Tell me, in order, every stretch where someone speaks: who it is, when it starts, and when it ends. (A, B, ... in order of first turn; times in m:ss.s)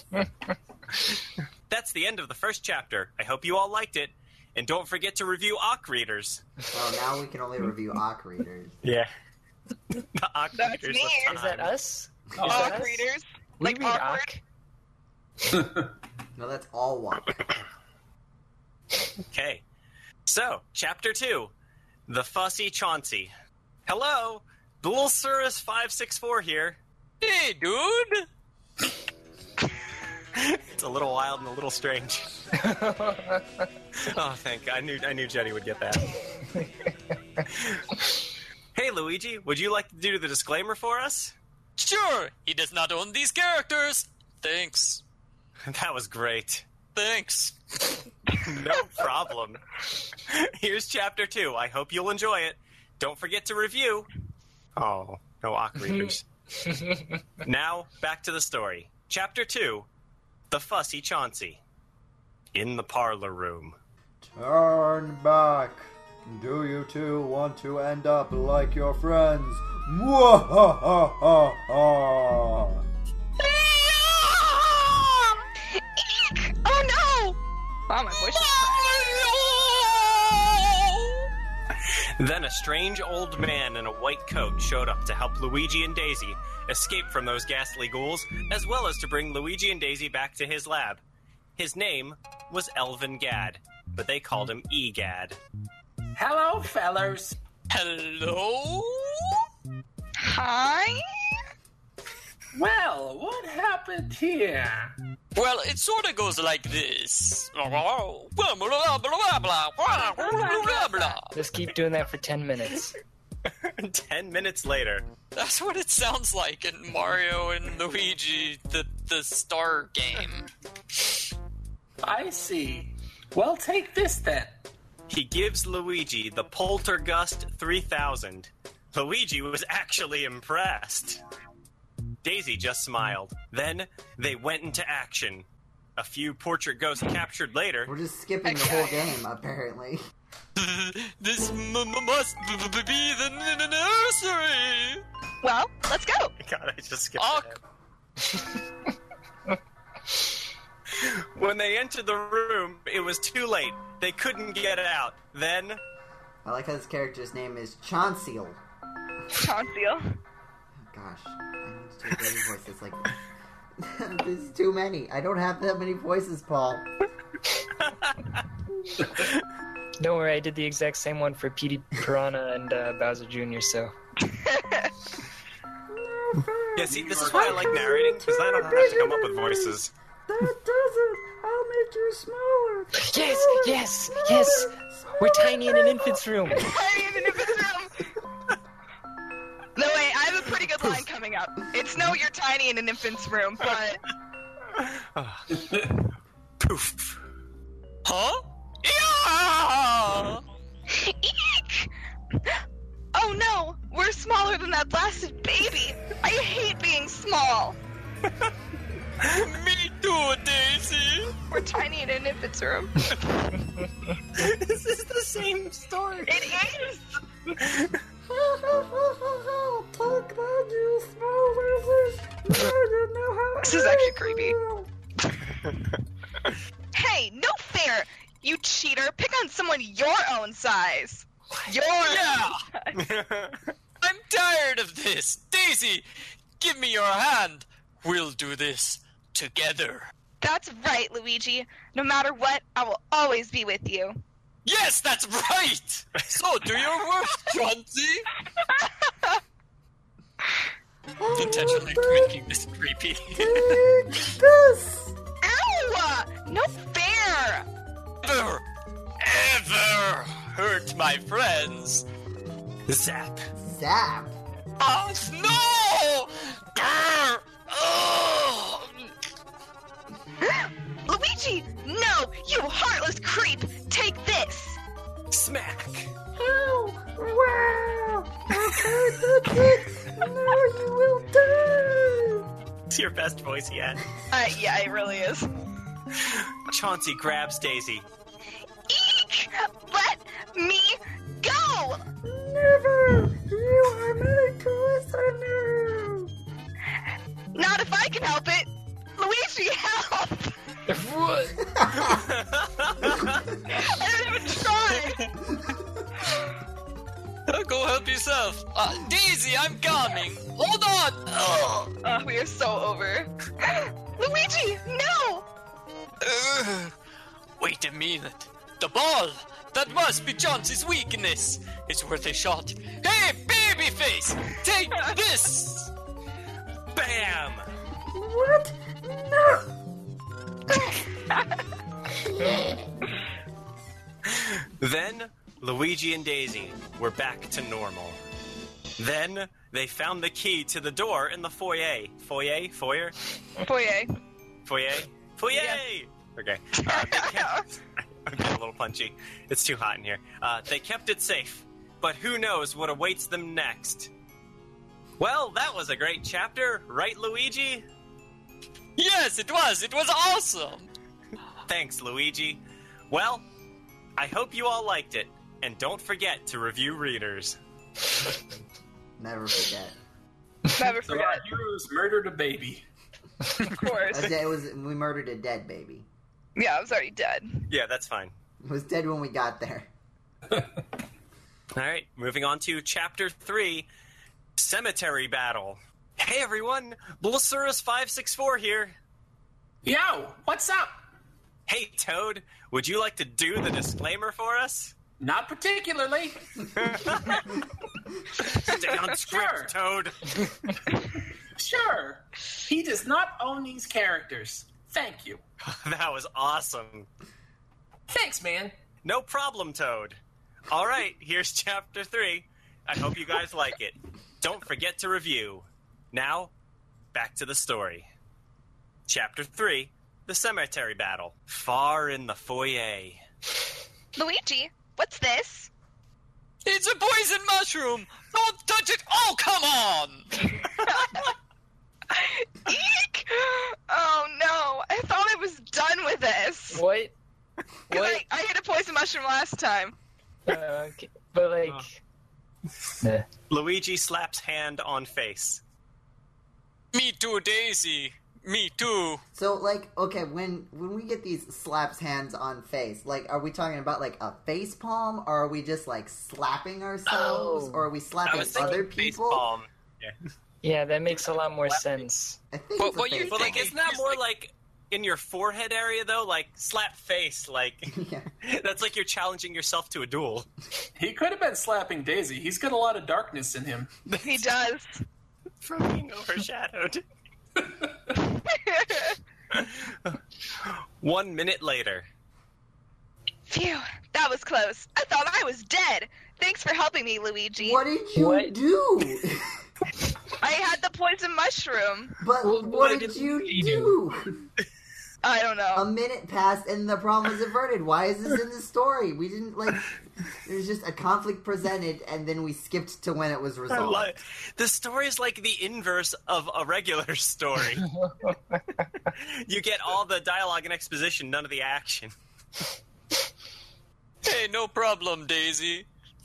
0:01.7-0:06.4 A
0:06.7-0:08.8 B
0:08.8-0:09.1 A
0:10.0-0:11.7 A
0:10.6-0:11.3 C
0:11.3-0:13.1 D
0:12.4-0:12.8 E
0:12.4-0:14.2 C
0:13.6-0:14.4 D
0:15.5-0:15.9 E
0:16.4-0:17.4 B
0:19.3-0:19.6 A
0:20.3-0:21.5 A
0:22.1-0:23.3 A
0:23.9-0:26.8 A
0:27.2-0:28.2 F
0:30.4-0:32.3 A
0:32.6-0:33.6 D
0:34.0-0:36.1 A
0:37.6-0:38.0 A
0:38.7-0:41.4 A
0:41.8-0:45.0 F
0:45.7-0:46.7 A
0:47.0-0:48.0 F
0:48.4-0:49.6 A
0:50.3-0:54.1 A
0:54.8-0:56.2 A
0:56.6-0:57.1 D
0:57.4-0:59.9 A
1:00.5-1:01.6 A
1:02.5-1:03.8 A
1:04.2-1:12.8 B
1:13.4-1:15.4 F
1:15.7-1:19.2 C
1:18.2-1:21.3 F
1:22.2-1:31.0 A
1:31.6-1:35.4 A
1:36.1-1:37.4 E
1:37.7-1:39.4 F
1:40.2-1:41.4 C
1:42.5-1:45.0 E
1:45.4-1:51.3 F
1:50.2-1:51.0 C
1:51.3-1:52.9 D
1:53.6-1:55.1 A
1:55.4-2:00.5 F
2:02.0-2:04.6 E
2:05.1-2:11.2 A
2:12.2-2:15.4 A
2:16.0-2:17.9 A
2:17.9-2:20.0 B
2:18.4-2:19.1 C
2:20.6-2:25.0 F
2:25.4-2:26.3 C
2:26.4-2:27.6 A
2:27.2-2:27.6 F
2:31.0-2:35.8 A
2:36.4-2:38.6 B
2:39.3-2:40.1 C
2:40.9-2:43.2 B
2:43.8-2:46.9 B
2:50.0-2:53.9 D
2:54.2-2:54.9 C
2:55.9-2:59.8 B
2:56.7-2:59.9 A
2:56.9-2:57.6 E
3:00.3-3:06.2 B
3:03.0-3:06.7 D
3:06.5-3:08.1 C
3:09.8-3:14.0 C
3:14.8-3:15.9 A
3:15.6-3:15.9 E
3:16.6-3:17.2 A
3:18.0-3:20.4 F
3:20.9-3:21.9 C
3:23.1-3:27.8 C
3:29.2-3:31.4 F
3:31.5-3:33.7 C
3:34.4-3:36.7 A
3:36.3-3:37.1 C
3:37.6-3:38.0 A
3:38.3-3:44.9 B
3:43.6-3:44.6 C
3:46.9-3:53.0 C
3:52.0-3:52.6 F
3:53.0-3:53.7 A
3:54.0-3:56.1 F
3:56.6-4:00.1 F
4:00.4-4:04.2 C
4:04.6-4:08.3 F
4:08.6-4:09.4 C
4:11.2-4:12.4 B
4:11.4-4:13.8 F
4:13.4-4:15.2 B
4:15.4-4:17.7 C
4:18.2-4:18.6 F
4:19.2-4:22.1 F
4:22.9-4:23.5 A
4:23.6-4:24.4 B
4:24.8-4:29.1 F
4:30.4-4:34.8 C
4:35.3-4:36.1 A
4:36.4-4:42.5 B
4:42.9-4:44.0 A
4:44.3-4:45.5 C
4:46.2-4:48.1 A
4:48.9-4:52.1 C
4:52.2-4:56.3 B
4:57.5-5:00.6 C
5:00.9-5:01.6 D
5:01.7-5:02.2 B
5:02.0-5:03.4 A
5:03.7-5:05.3 C
5:07.5-5:11.9 F
5:12.0-5:15.4 C
5:16.2-5:16.9 F
5:17.6-5:25.9 F
5:26.9-5:27.7 A
5:28.1-5:29.7 B
5:31.3-5:31.6 C
5:32.2-5:32.9 B
5:34.3-5:38.2 A
5:39.0-5:43.2 A
5:43.6-5:44.1 C
5:44.7-5:54.1 A
5:45.5-5:45.8 C
5:46.8-5:47.6 C
5:55.2-5:57.8 A
5:59.0-6:00.9 F
6:01.7-6:03.4 A
6:04.2-6:07.6 A
6:09.2-6:10.0 B
6:10.7-6:11.4 C
6:11.0-6:12.9 E
6:13.6-6:14.3 C
6:14.1-6:16.1 B
6:16.6-6:17.7 C
6:17.7-6:18.3 A
6:18.6-6:19.9 B
6:21.7-6:23.9 A
6:24.6-6:29.0 A
6:29.8-6:31.0 E
6:31.7-6:34.9 A
6:35.2-6:36.5 E
6:36.7-6:37.6 A
6:38.4-6:40.8 A
6:38.7-6:39.0 C
6:39.2-6:39.7 E
6:41.6-6:45.4 E
6:45.7-6:47.1 A
6:48.1-6:48.7 E
6:49.0-6:50.2 A
6:50.7-6:56.5 A
6:57.1-6:58.1 A
6:59.1-7:03.2 A
7:04.2-7:05.7 C
7:06.6-7:10.5 F
7:10.8-7:11.3 C
7:12.1-7:16.8 C
7:16.7-7:17.1 D
7:17.9-7:18.2 D
7:17.9-7:20.0 C
7:20.4-7:22.0 D
7:23.0-7:23.3 D
7:23.5-7:25.6 A
7:26.9-7:29.2 F
7:29.3-7:39.4 B
7:37.1-7:37.9 D
7:38.3-7:40.2 A
7:38.3-7:38.9 F
7:40.6-7:42.4 D
7:42.5-7:43.7 B
7:42.8-7:44.2 F
7:43.3-7:50.5 A
7:47.9-7:48.3 B
7:51.0-7:53.9 E
7:54.1-7:54.5 A
7:54.2-7:54.9 C
7:55.6-7:57.0 A
7:58.2-7:59.2 C
7:59.5-8:02.1 A
8:03.5-8:07.8 C
8:07.6-8:09.5 B
8:08.2-8:08.6 D
8:10.4-8:12.2 C
8:12.2-8:14.4 B
8:12.4-8:14.0 D
8:15.2-8:15.9 C
8:15.7-8:24.1 B
8:23.7-8:27.9 A
8:28.0-8:28.6 D
8:29.1-8:32.1 A
8:34.2-8:35.9 F